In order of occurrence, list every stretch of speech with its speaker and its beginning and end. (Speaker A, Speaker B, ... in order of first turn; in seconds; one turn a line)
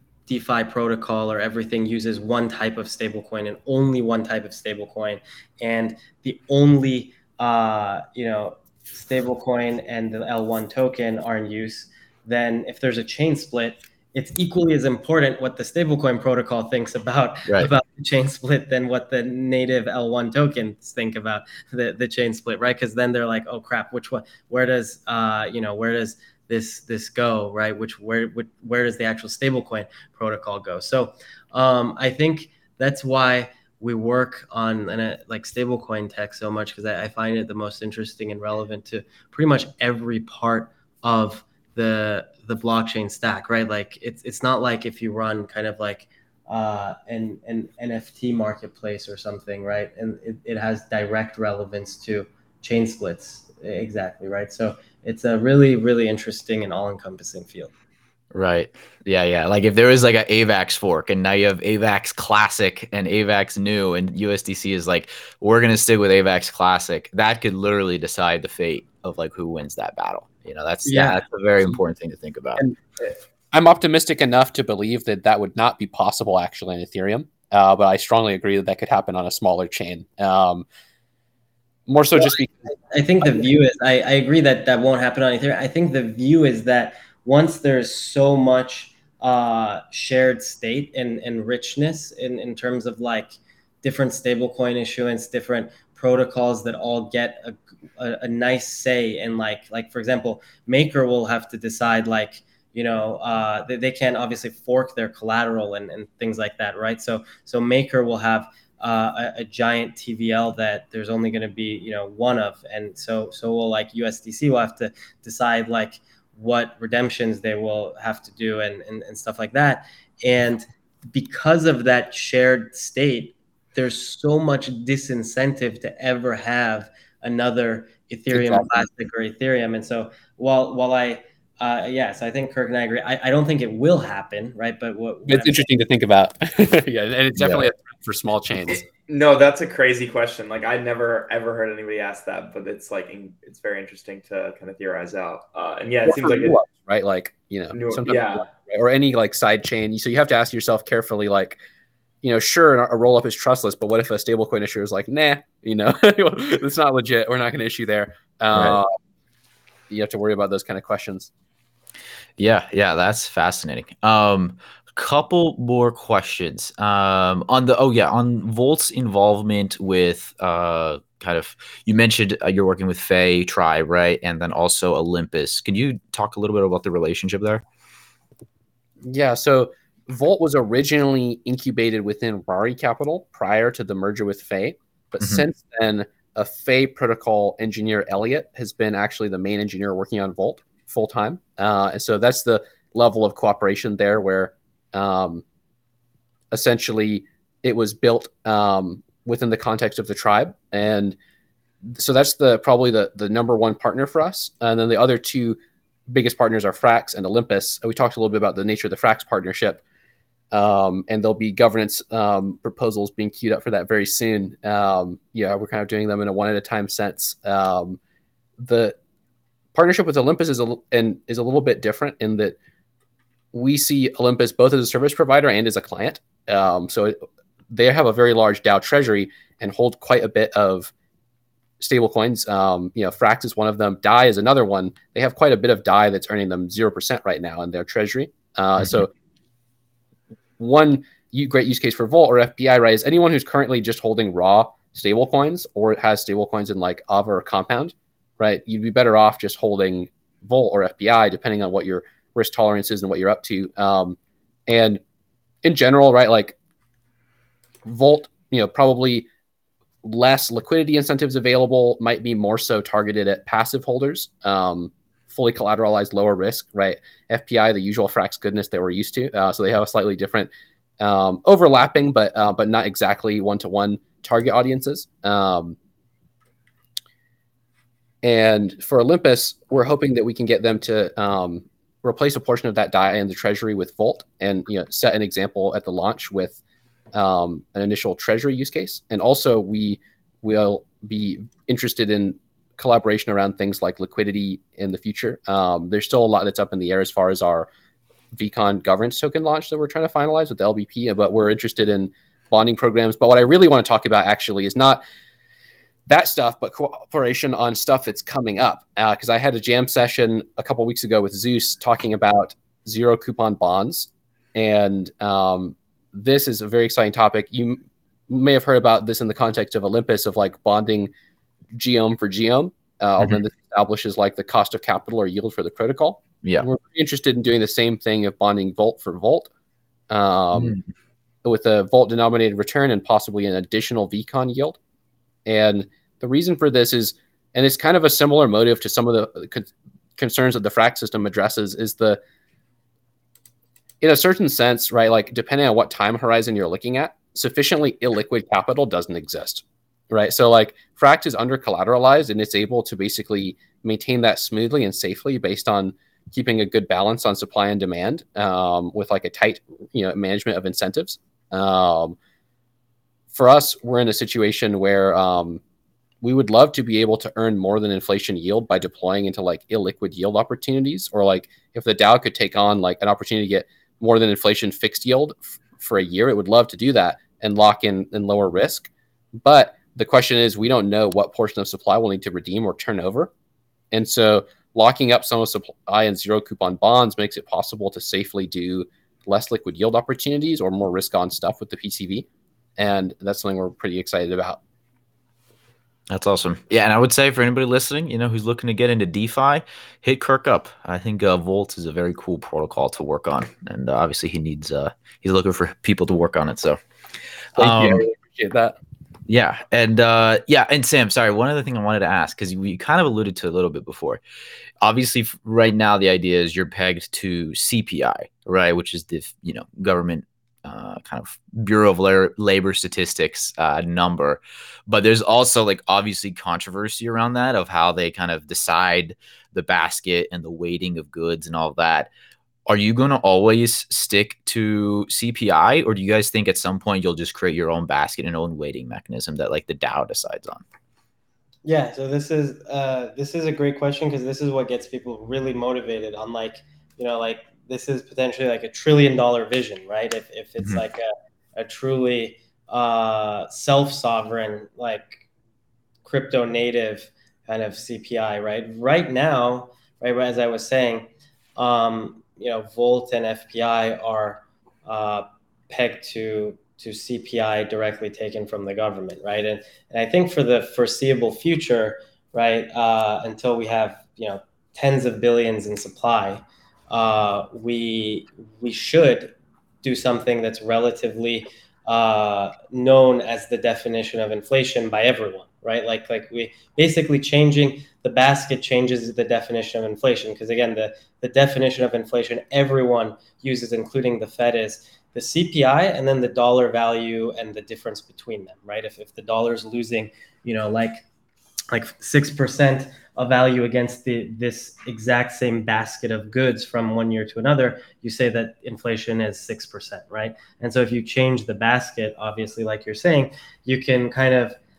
Speaker A: 0.3-57.7
Speaker B: 58.3-72.6
Speaker A: 70.8-71.2
Speaker C: 73.5-80.7
Speaker C: 81.9-83.4
Speaker A: 82.2-135.7
Speaker C: 128.3-128.8
Speaker C: 135.3-138.8
Speaker D: 138.7-146.6
Speaker C: 146.0-151.6
Speaker D: 147.7-148.5
Speaker C: 152.2-158.9
Speaker B: 158.5-158.8
Speaker C: 159.9-161.3
Speaker B: 162.4-177.6
Speaker C: 179.0-195.4
Speaker B: 185.2-185.4
Speaker C: 196.5-201.2
Speaker C: 201.8-205.6
Speaker C: 206.1-209.8
Speaker C: 210.5-218.0
Speaker C: 218.6-218.9
Speaker C: 219.7-222.6
Speaker C: 223.5-227.2
Speaker C: 227.7-230.9
Speaker C: 231.8-239.1
Speaker C: 240.6-255.0
Speaker C: 255.6-256.6
Speaker C: 257.8-259.3
Speaker C: 260.0-275.8
Speaker C: 278.2-286.6
Speaker C: 287.1-297.7
Speaker C: 298.3-305.0
Speaker C: 306.1-321.1
Speaker C: 321.7-329.5
Speaker C: 330.1-330.8
Speaker C: 331.4-334.8
Speaker C: 335.4-342.2
Speaker C: 344.0-362.2
Speaker C: 363.3-365.6
Speaker C: 366.2-378.9
Speaker C: 379.4-383.3
Speaker C: 383.9-394.6
Speaker B: 396.1-406.8
Speaker B: 407.6-408.0
Speaker C: 407.6-408.8
Speaker B: 409.3-414.2
Speaker B: 414.8-432.1
Speaker B: 432.7-440.6
Speaker A: 441.6-455.2
Speaker A: 456.0-501.0
Speaker A: 501.7-514.6